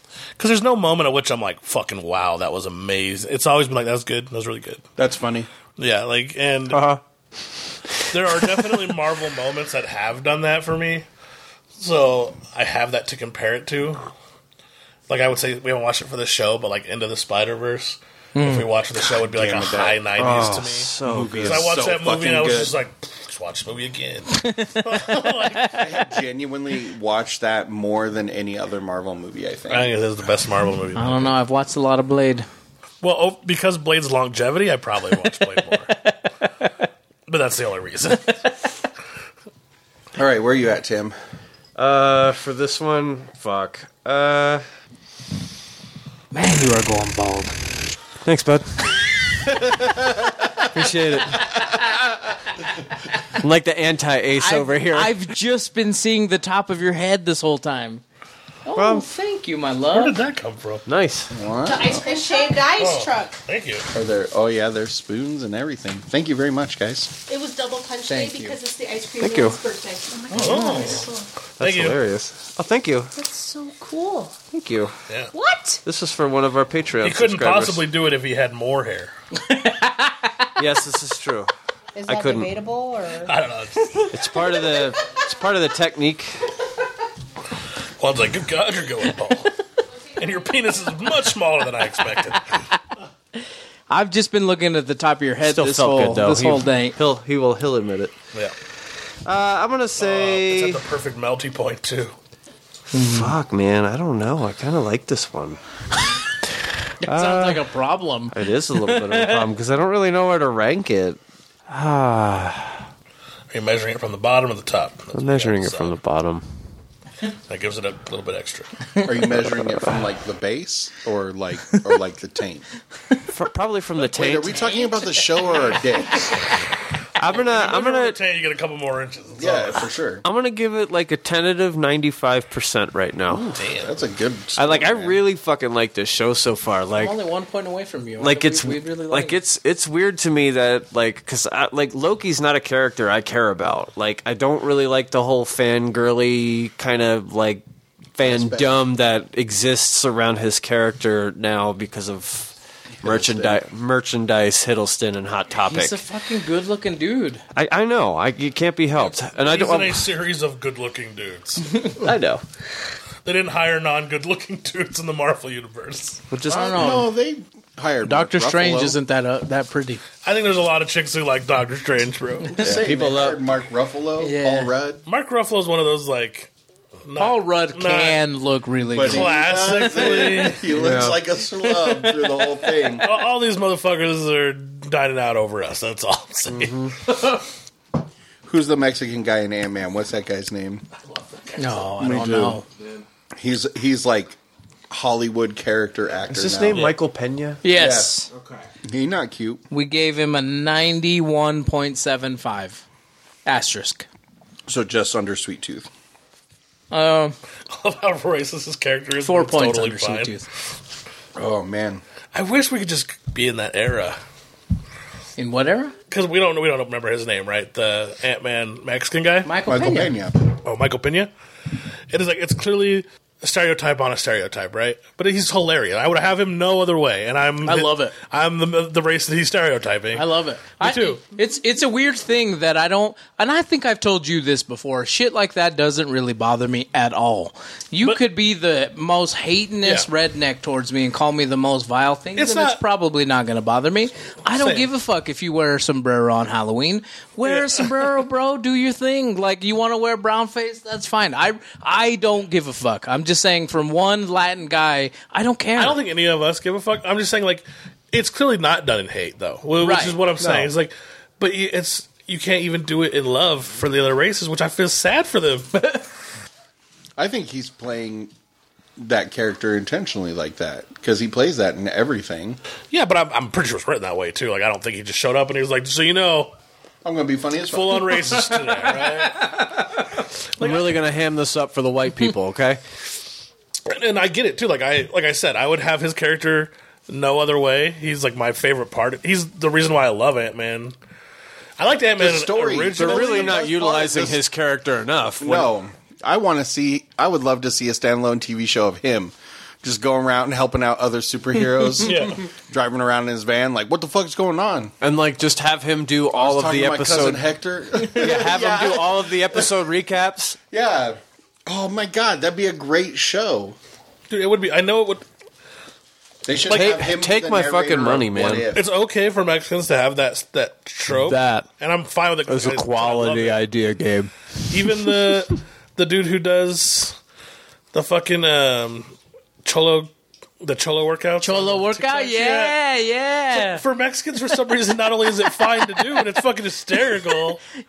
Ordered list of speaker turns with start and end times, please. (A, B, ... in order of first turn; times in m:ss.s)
0:00.4-0:04.8 A
0:05.0-0:05.5 B
0:05.8-0:06.8 A
0:06.7-0:07.0 C
0:08.1-0:11.0 A
0:11.8-0:14.1 A
0:15.1-0:20.9 A
0:18.4-0:18.7 D
0:19.0-0:20.1 B
0:20.2-0:21.8 C
0:21.0-0:22.8 B
0:21.4-0:25.9 A
0:24.3-0:25.8 D
0:25.7-0:29.9 B
0:29.7-0:31.3 A
0:31.0-0:32.5 D
0:33.0-0:36.1 A
0:36.4-0:36.7 D
0:37.3-0:38.5 A
0:40.2-0:41.1 B
0:41.8-0:44.6 C
0:46.3-0:47.6 D
0:48.2-0:49.8 C
0:49.7-0:50.4 B
0:50.6-0:51.8 C
0:53.4-0:55.1 C
0:54.4-0:58.0 D
0:58.6-1:00.2 D
0:58.8-0:59.1 C
0:59.9-1:00.9 A
1:00.9-1:01.3 C
1:01.3-1:02.2 B
1:01.6-1:03.4 E
1:02.8-1:03.9 A
1:03.9-1:07.1 B
1:07.3-1:11.3 E
1:08.1-1:08.6 D
1:09.2-1:09.6 C
1:10.3-1:11.1 A
1:10.4-1:10.8 D
1:11.6-1:12.0 A
1:11.6-1:13.1 C
1:13.1-1:14.4 E
1:14.5-1:14.9 C
1:15.3-1:15.8 E
1:15.8-1:17.8 C
1:17.0-1:19.1 A
1:19.5-1:20.5 D
1:20.6-1:21.5 C
1:22.0-1:23.4 E
1:22.0-1:22.5 C
1:23.3-1:24.1 A
1:24.1-1:26.3 C
1:28.0-1:29.6 A
1:30.1-1:32.5 A
1:32.3-1:32.6 D
1:33.9-1:37.0 D
1:35.4-1:38.1 C
1:39.2-1:40.8 C
1:40.0-1:42.1 A
1:42.9-1:43.3 D
1:42.9-1:46.2 C
1:47.0-1:47.7 C
1:47.0-1:49.4 D
1:48.3-1:51.2 C
1:51.7-1:52.8 C
1:53.5-1:56.0 A
1:55.1-1:56.4 C
1:57.5-1:58.7 A
1:59.0-2:02.6 B
2:03.3-2:04.8 C
2:04.1-2:06.5 B
2:07.2-2:08.2 C
2:07.2-2:09.9 A
2:09.4-2:10.2 B
2:10.2-2:13.6 C
2:13.3-2:15.2 B
2:13.6-2:13.9 A
2:14.6-2:17.1 C
2:17.0-2:19.4 D
2:18.2-2:27.6 C
2:28.1-2:32.5 C
2:28.2-2:28.9 B
2:33.0-2:33.6 B
2:33.0-2:36.0 C
2:35.6-2:37.4 D
2:37.6-2:40.1 C
2:39.0-2:41.8 A
2:41.9-2:42.4 C
2:43.2-2:46.2 A
2:46.3-2:47.0 C
2:46.5-2:47.1 D
2:46.5-2:49.0 B
2:48.0-2:50.0 D
2:50.2-2:52.6 A
2:52.5-2:55.0 B
2:52.6-2:53.4 C
2:54.2-2:54.7 D
2:55.1-2:56.5 A
2:57.1-2:58.2 A
2:57.2-3:00.4 D
2:58.9-3:03.1 B
2:59.1-3:00.6 A
3:00.7-3:01.2 C
3:01.6-3:02.9 D
3:03.0-3:06.8 A
3:06.5-3:07.0 C
3:08.4-3:10.8 B
3:11.1-3:11.8 A
3:11.6-3:12.6 D
3:12.0-3:12.6 B
3:13.4-3:14.4 B
3:14.9-3:16.9 B
3:16.3-3:17.6 C
3:17.6-3:18.3 D
3:17.7-3:18.2 B
3:18.8-3:19.6 B
3:19.7-3:22.8 D
3:23.5-3:24.1 D
3:24.7-3:25.9 B
3:26.9-3:27.4 D
3:27.7-3:30.4 A
3:29.2-3:30.4 D
3:31.4-3:32.0 B
3:32.3-3:34.2 A
3:35.4-3:35.9 D
3:36.1-3:39.5 A
3:39.4-3:40.2 D
3:39.6-3:40.4 B
3:40.6-3:41.3 A
3:42.1-3:51.2 A
3:47.6-3:48.1 D
3:50.1-4:16.0 D
4:02.4-4:02.8 A
4:04.5-4:04.9 A
4:07.4-4:08.0 A
4:15.8-4:25.8 A
4:19.8-4:20.2 D
4:20.4-4:20.7 C
4:27.2-4:28.3 B
4:29.0-4:32.6 B
4:32.9-4:36.5 A
4:37.0-4:38.3 B
4:37.7-4:39.8 A
4:40.6-4:41.0 A
4:40.6-4:42.8 C
4:43.9-4:51.0 A
4:51.8-4:53.6 A
4:52.2-4:54.4 B
4:53.0-4:55.7 C
4:55.4-5:04.9 B
5:02.0-5:02.4 A
5:05.0-5:07.4 C
5:06.3-5:09.8 B
5:08.0-5:10.6 C
5:10.7-5:13.8 B
5:14.3-5:15.2 A
5:16.4-5:18.9 B
5:16.7-5:17.0 A
5:16.7-5:18.7 C
5:18.7-5:23.6 A
5:21.2-5:21.6 C
5:22.5-5:25.2 C
5:24.7-5:27.2 A
5:27.9-5:32.8 A
5:31.4-5:33.8 D
5:33.5-5:37.6 A
5:35.8-5:36.2 D